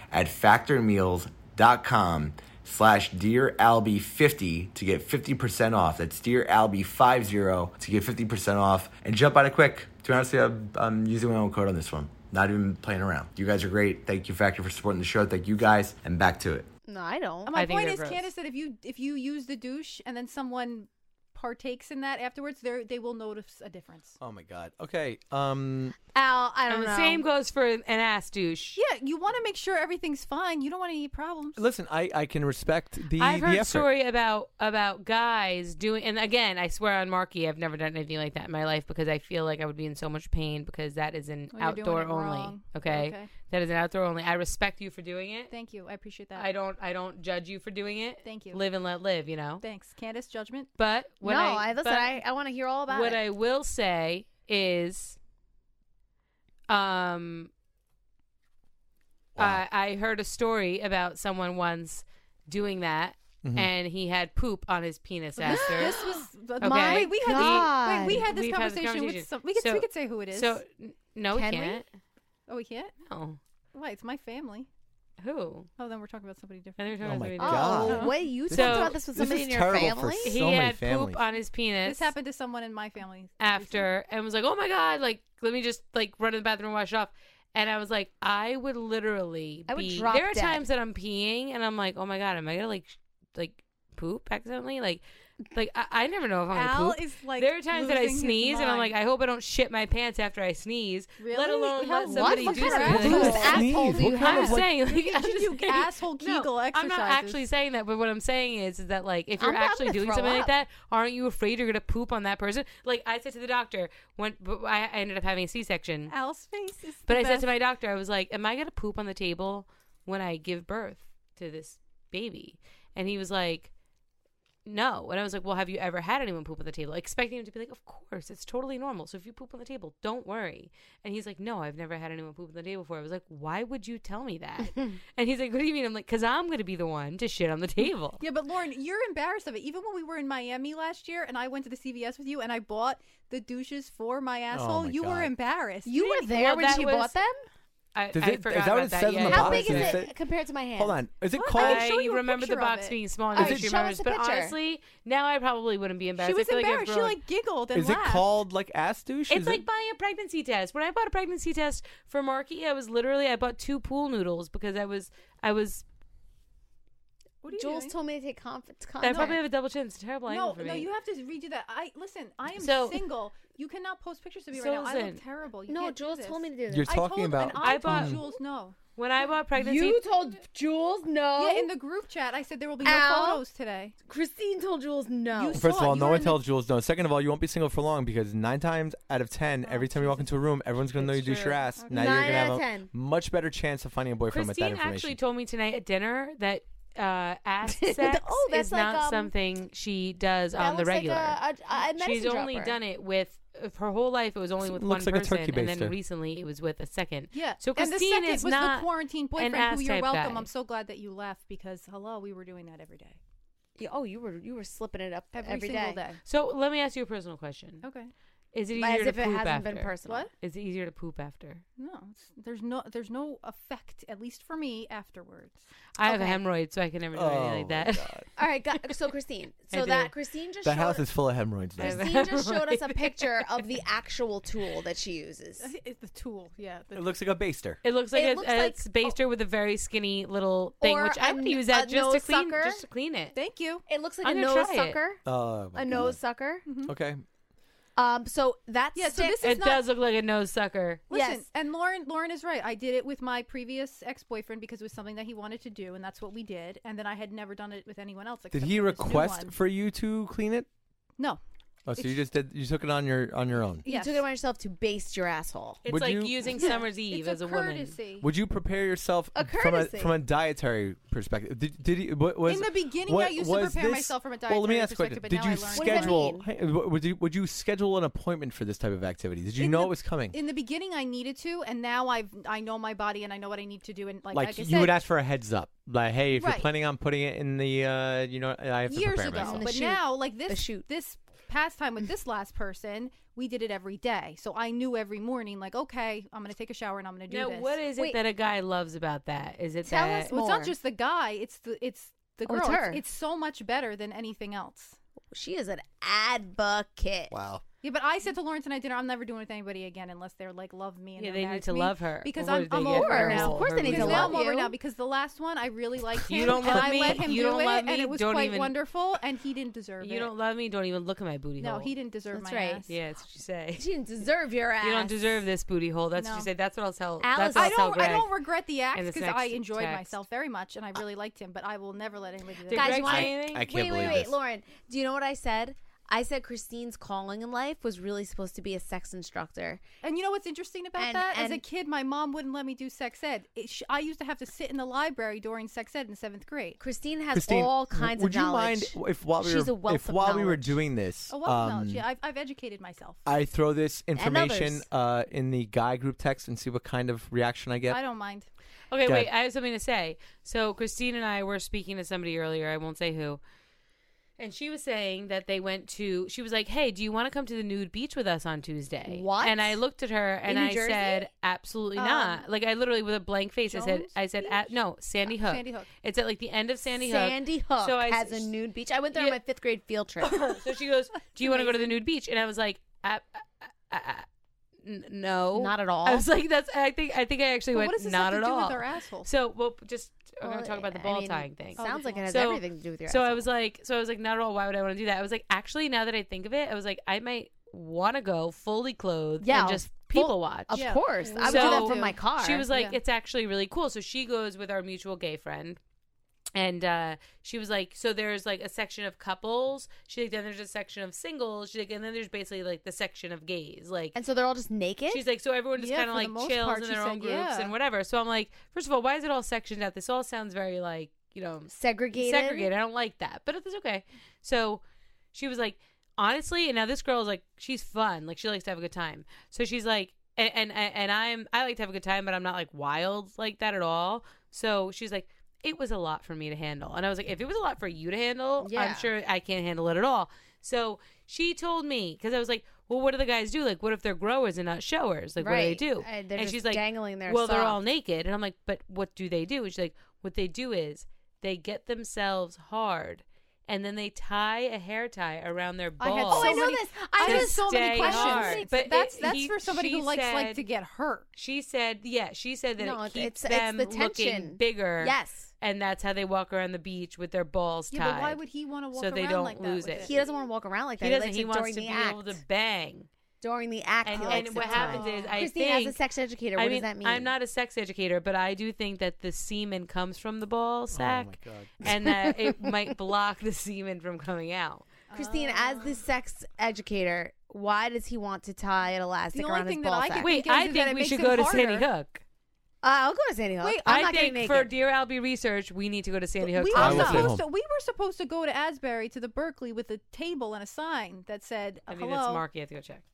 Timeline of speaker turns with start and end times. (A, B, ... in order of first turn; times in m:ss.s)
0:00.2-0:00.8 A
0:00.2-0:02.3 B
0:01.3-0:01.7 A
0:02.8-0:10.0 B
0:07.6-0:16.6 A
0:11.3-0:12.3 B
0:13.6-0:15.1 B
0:16.9-0:17.5 C
0:17.5-0:24.2 D
0:17.5-0:18.3 E
0:24.2-0:26.0 A
0:26.1-0:27.2 C
0:26.7-0:28.8 E
0:28.8-0:31.6 D
0:31.6-0:33.9 A
0:33.2-0:45.5 E
0:41.5-0:43.3 D
0:45.5-0:46.5 D
0:46.4-0:49.6 E
0:48.2-0:48.6 D
0:49.6-0:50.7 D
0:50.8-0:52.2 E
0:51.2-0:53.2 C
0:52.9-0:55.2 E
0:56.7-0:57.5 E
0:59.4-0:59.6 A
0:59.4-1:06.0 E
1:03.4-1:03.7 A
1:05.4-1:10.6 D
1:05.5-1:08.3 C
1:06.6-1:11.9 E
1:11.3-1:11.8 C
1:12.5-1:12.9 D
1:13.1-1:13.4 E
1:13.7-1:14.7 D
1:15.2-1:15.7 E
1:15.8-1:16.9 D
1:16.8-1:19.0 E
1:17.0-1:21.2 A
1:17.4-1:20.4 C
1:17.8-1:18.2 D
1:20.2-1:22.1 E
1:21.8-1:23.9 D
1:23.4-1:56.1 E
1:29.7-1:30.6 C
1:36.5-1:39.0 D
1:41.2-1:47.4 D
1:42.1-1:44.6 C
1:42.8-1:44.7 A
1:49.4-1:50.5 C
1:56.1-1:57.5 D
1:57.1-2:03.7 E
2:04.6-2:18.2 E
2:18.2-2:26.0 D
2:24.5-2:25.3 A
2:25.8-2:27.4 C
2:26.0-2:27.2 E
2:28.0-2:30.0 E
2:28.1-2:30.1 A
2:29.2-2:31.0 C
2:30.8-2:31.9 A
2:31.3-2:33.0 D
2:31.6-2:37.2 E
2:33.4-2:33.7 A
2:33.4-2:34.6 C
2:36.2-2:38.3 D
2:37.7-2:39.6 A
2:39.3-2:45.8 E
2:47.4-2:48.0 D
2:47.5-2:49.4 C
2:49.0-2:50.9 E
2:49.0-2:49.4 D
2:50.3-2:58.8 D
2:52.6-2:53.0 E
2:54.5-2:55.2 E
2:55.7-2:57.0 C
2:56.7-2:58.2 A
2:57.6-2:58.3 E
2:59.0-3:00.0 E
2:59.6-3:01.7 C
3:01.4-3:04.0 D
3:02.8-3:03.4 C
3:04.1-3:05.8 C
3:05.4-3:06.4 D
3:05.5-3:15.2 A
3:09.6-3:10.4 D
3:11.0-3:11.6 E
3:11.8-3:12.4 D
3:11.9-3:12.9 C
3:14.3-3:21.4 E
3:17.7-3:19.3 C
3:20.6-3:22.8 C
3:22.0-3:30.5 E
3:24.6-3:26.0 A
3:27.3-3:33.2 D
3:33.8-3:36.0 C
3:35.3-3:36.2 D
3:36.2-3:37.8 E
3:37.8-3:38.1 D
3:38.5-3:41.6 E
3:38.8-3:40.3 C
3:40.1-3:40.3 D
3:41.8-3:45.6 D
3:46.0-3:48.1 E
3:46.0-3:46.4 C
3:47.1-3:48.3 A
3:48.4-3:51.0 C
3:49.7-3:50.1 E
3:50.6-3:52.0 A
3:51.8-3:53.3 E
3:51.8-3:55.7 C
3:55.6-3:57.2 D
3:56.9-3:57.8 A
3:57.8-4:03.4 E
3:58.1-3:59.1 C
4:00.8-4:02.8 C
4:03.3-4:03.8 D
4:03.9-4:05.2 C
4:04.2-4:05.0 E
4:05.2-4:06.2 A
4:05.8-4:06.6 C
4:06.7-4:06.9 D
4:06.9-4:07.2 A
4:08.0-4:09.4 C
4:09.0-4:09.8 D
4:09.4-4:11.0 E
4:11.1-4:19.6 D
4:11.1-4:11.4 C
4:18.5-4:20.7 A
4:21.9-4:23.9 A
4:23.8-4:24.2 D
4:23.9-4:25.8 C
4:25.8-4:28.0 E
4:25.9-4:26.5 A
4:26.5-4:28.3 D
4:28.2-4:40.4 A
4:29.4-4:30.2 C
4:32.5-4:36.2 D
4:35.7-4:36.5 C
4:39.6-4:45.0 D
4:44.3-4:49.7 A
4:46.4-4:46.7 D
4:48.9-4:57.8 D
4:49.3-4:50.8 C
4:57.3-5:00.3 E
4:59.8-5:00.8 C
5:00.3-5:05.0 D
5:02.5-5:03.0 C
5:05.3-5:07.3 C
5:07.3-5:07.6 A
5:07.8-5:20.3 D
5:11.2-5:14.4 E
5:12.8-5:14.8 C
5:16.2-5:18.7 E
5:20.0-5:21.9 E
5:21.6-5:22.9 D
5:22.3-5:22.9 C
5:22.9-5:23.9 E
5:23.8-5:25.4 C
5:24.8-5:28.4 E
5:26.2-5:26.5 D
5:27.2-5:28.3 C
5:27.6-5:33.3 D
5:28.9-5:30.2 E
5:32.7-5:33.8 E
5:32.7-5:39.8 C
5:33.1-5:34.4 A
5:40.0-5:46.8 D
5:41.0-5:41.6 C
5:46.8-5:50.8 C
5:47.3-5:52.1 A
5:51.3-5:53.2 D
5:53.3-5:58.0 A
5:54.2-5:54.9 C
5:57.9-5:58.5 D
5:58.9-6:03.4 E
6:04.4-6:18.5 E
6:09.1-6:09.8 C
6:10.5-6:11.3 C
6:12.0-6:12.4 D
6:13.7-6:15.9 D
6:17.0-6:20.5 C
6:20.2-6:24.3 E
6:21.4-6:21.9 D
6:24.8-6:45.8 E
6:25.6-6:26.3 C
6:27.7-6:29.3 D
6:30.4-6:33.4 C
6:31.8-6:32.3 D
6:39.4-6:42.7 C
6:40.7-6:43.0 D
6:46.6-6:54.2 E
6:54.2-6:55.2 C
6:55.1-7:04.8 E
6:55.8-6:57.7 D
7:01.7-7:02.7 C
7:05.3-7:36.7 E
7:18.6-7:19.1 C
7:25.4-7:27.8 C
7:36.0-7:41.3 D
7:36.3-7:38.7 C
7:37.2-7:40.6 E
7:41.4-7:48.4 E
7:42.8-7:45.5 C
7:47.9-7:50.3 D
7:48.9-7:50.1 E
7:50.0-7:52.4 C
7:51.0-7:53.1 E
7:53.4-7:57.3 C
7:54.0-7:56.0 E
7:54.1-7:55.4 D
7:56.6-8:04.8 E
8:00.9-8:01.9 A
8:05.1-8:06.0 D
8:05.1-8:10.3 C
8:09.3-8:11.9 D
8:10.2-8:12.2 E
8:12.8-8:14.7 C
8:13.6-8:14.0 D
8:13.9-8:17.4 E
8:16.4-8:22.4 D
8:16.7-8:17.5 A
8:21.9-8:23.0 E